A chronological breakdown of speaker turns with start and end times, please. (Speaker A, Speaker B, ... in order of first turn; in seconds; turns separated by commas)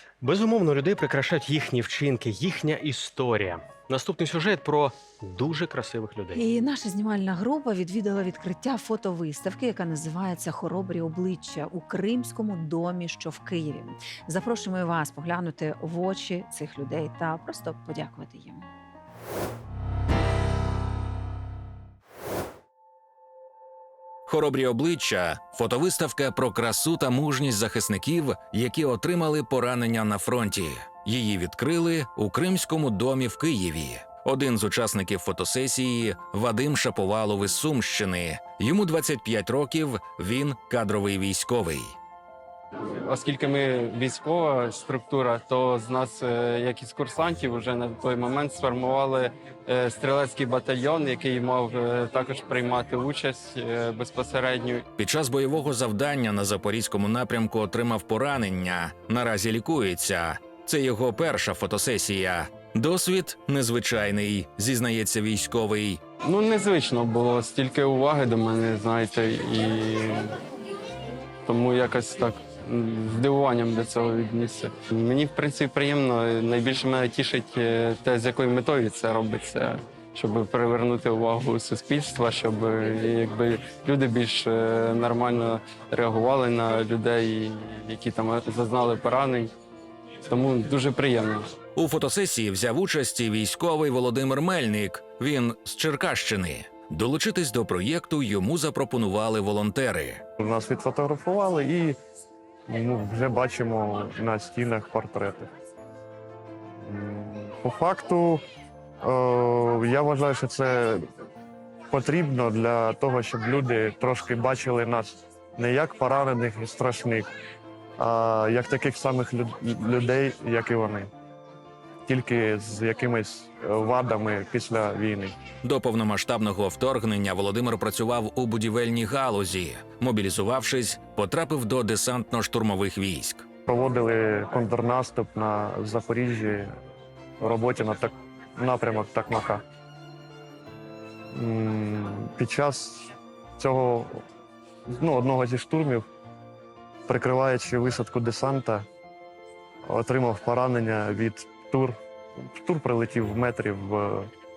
Speaker A: 0.2-6.4, Speaker B: 6.3-18.6, Speaker C: 24.3-42.0, Speaker D: 43.0-54.8, Speaker C: 55.0-66.0, Speaker D: 66.2-70.3, Speaker D: 71.5-89.5, Speaker D: 90.3-91.5, Speaker C: 91.8-100.2, Speaker E: 100.4-102.0, Speaker E: 102.7-105.5, Speaker E: 106.8-108.4, Speaker E: 109.0-111.1, Speaker E: 111.9-117.3, Speaker E: 118.0-121.1, Speaker E: 122.1-125.3, Speaker C: 125.6-133.4, Speaker E: 133.7-136.7, Speaker E: 137.4-139.6, Speaker E: 141.3-144.2, Speaker E: 144.9-146.1, Speaker E: 147.1-148.9, Speaker E: 149.9-154.3